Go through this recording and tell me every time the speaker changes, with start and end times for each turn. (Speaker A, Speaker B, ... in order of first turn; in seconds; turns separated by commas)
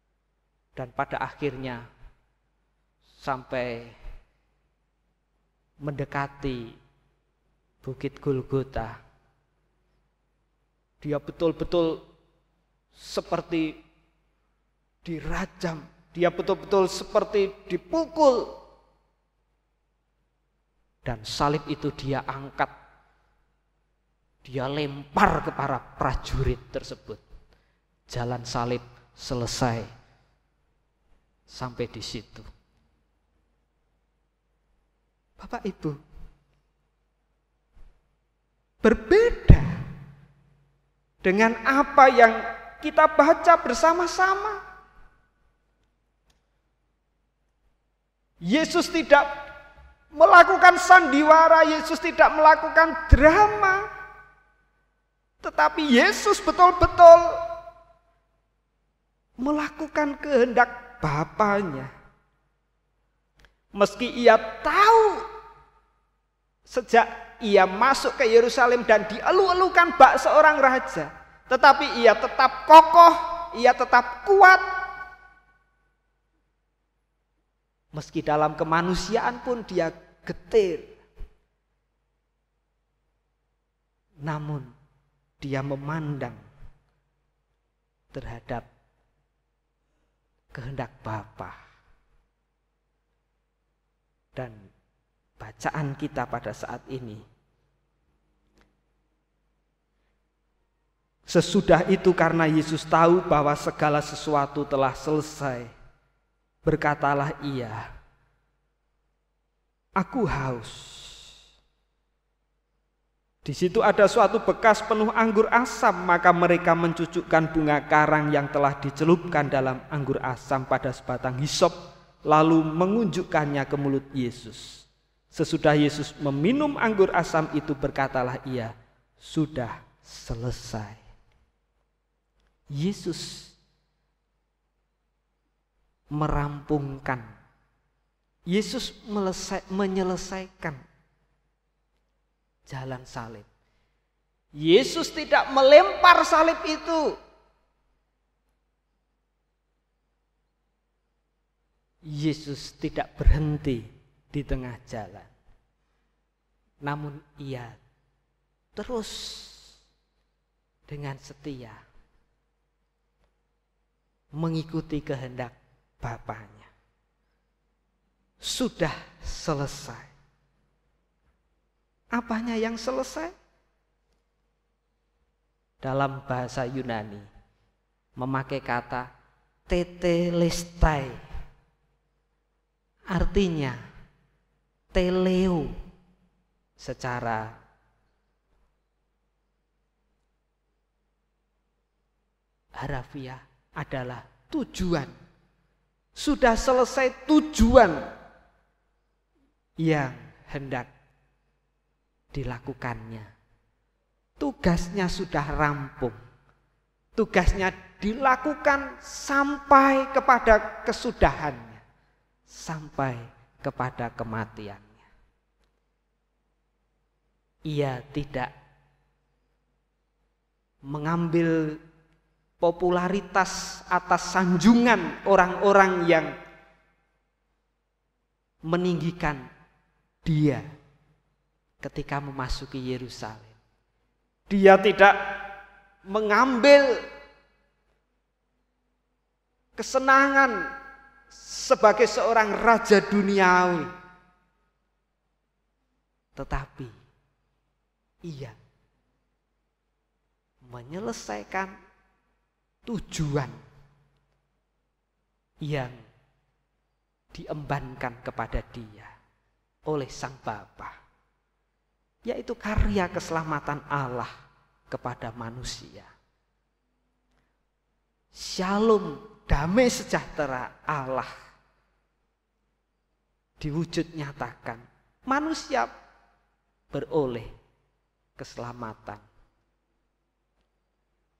Speaker A: 0.8-1.8, Speaker A: 3.2-3.9, Speaker A: 5.8-6.7, Speaker A: 7.8-9.0, Speaker A: 11.0-12.0, Speaker A: 12.9-13.8, Speaker A: 15.0-18.6, Speaker A: 21.0-22.7, Speaker A: 24.4-27.2, Speaker A: 28.1-29.9, Speaker A: 31.5-32.5, Speaker A: 35.4-36.0, Speaker A: 38.8-39.7, Speaker A: 41.2-44.6, Speaker A: 48.4-49.3, Speaker A: 50.1-53.9, Speaker A: 55.4-57.4, Speaker A: 59.4-61.9, Speaker A: 63.7-65.3, Speaker A: 66.7-74.6, Speaker A: 77.9-80.9, Speaker A: 84.2-84.7, Speaker A: 85.4-86.4, Speaker A: 88.1-88.7, Speaker A: 90.5-91.5, Speaker A: 95.4-97.2, Speaker A: 101.3-105.7, Speaker A: 106.7-107.8, Speaker A: 110.0-111.2, Speaker A: 113.4-121.7, Speaker A: 122.2-131.0, Speaker A: 132.7-133.5, Speaker A: 136.1-137.2, Speaker A: 138.5-140.8, Speaker A: 142.7-143.5, Speaker A: 144.5-147.2, Speaker A: 152.0-155.3, Speaker A: 156.8-157.8, Speaker A: 158.7-159.7, Speaker A: 160.9-161.8, Speaker A: 164.3-166.7, Speaker A: 168.4-170.1, Speaker A: 172.1-173.3, Speaker A: 175.8-177.2, Speaker A: 178.2-179.1, Speaker A: 179.7-181.2, Speaker A: 183.1-183.8, Speaker A: 184.9-185.7, Speaker A: 186.8-187.5, Speaker A: 192.8-195.1, Speaker A: 196.2-198.0, Speaker A: 199.8-200.9, Speaker A: 202.3-203.3, Speaker A: 204.4-206.2, Speaker A: 207.1-211.8, Speaker A: 212.5-215.0, Speaker A: 217.7-218.5, Speaker A: 220.9-221.8, Speaker A: 222.6-226.3, Speaker A: 228.7-229.4, Speaker A: 230.2-230.6, Speaker A: 231.8-233.6, Speaker A: 234.5-235.2, Speaker A: 236.1-237.0, Speaker A: 239.8-240.6, Speaker A: 241.3-243.9, Speaker A: 246.3-246.9, Speaker A: 248.2-248.5, Speaker A: 250.6-251.7, Speaker A: 252.8-253.5, Speaker A: 255.6-255.9, Speaker A: 257.3-259.1, Speaker A: 259.9-260.9, Speaker A: 262.2-264.3, Speaker A: 264.9-266.1, Speaker A: 268.3-271.3, Speaker A: 273.6-275.9, Speaker A: 276.9-277.5, Speaker A: 278.4-279.2